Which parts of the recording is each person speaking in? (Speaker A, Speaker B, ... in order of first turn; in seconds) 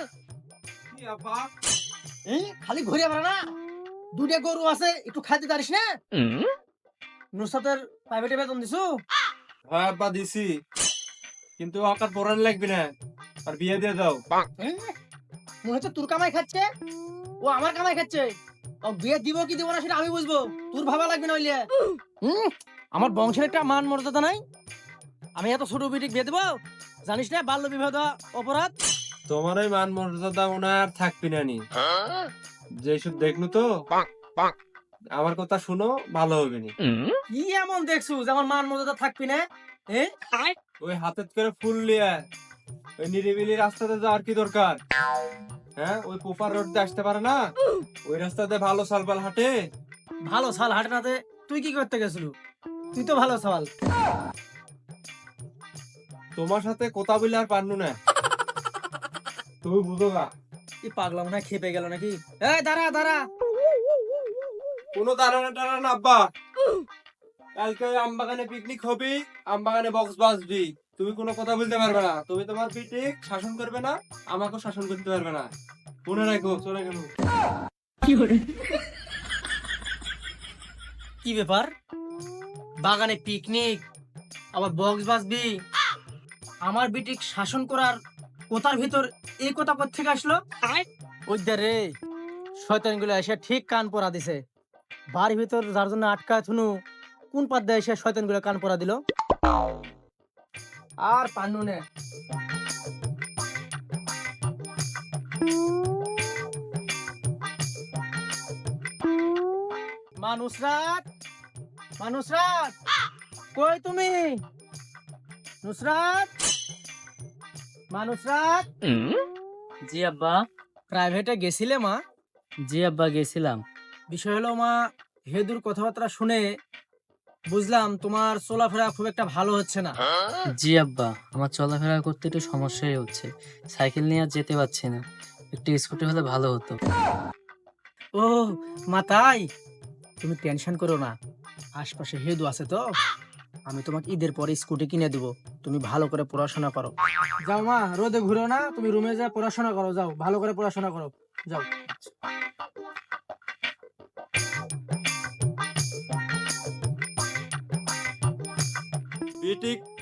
Speaker A: 0.9-1.5, 9.7-10.5, 11.6-12.9, 13.4-14.2, 29.3-31.6, 32.8-33.6, 35.1-36.7, 40.8-42.2, 43.0-44.8, 45.8-47.4, 48.1-49.5, 56.4-58.0, 59.6-60.3, 64.9-66.2, 67.6-75.5, 76.0-77.1, 159.4-159.8
Speaker B: 2.3-3.4, 4.1-5.8, 7.3-8.9, 14.6-14.9, 15.6-16.6, 17.4-18.3, 18.9-21.6, 22.2-24.4, 25.4-28.7, 37.3-40.1, 50.3-52.3, 52.9-53.7, 60.8-63.2, 81.2-81.7, 82.8-83.8, 84.5-85.5, 86.6-87.9, 88.5-90.4, 91.3-91.9, 92.6-94.4, 95.1-96.7, 97.3-99.0, 101.0-101.8, 110.2-111.0, 112.0-112.7, 113.5-114.4, 115.6-116.3, 117.9-118.7, 120.9-122.0, 124.1-124.7, 125.3-126.4, 127.5-130.0, 138.2-139.4, 140.2-141.1, 141.8-142.8, 143.7-146.9, 147.4-152.1
Speaker C: 119.8-120.4, 122.7-123.6, 130.5-135.0, 135.5-136.8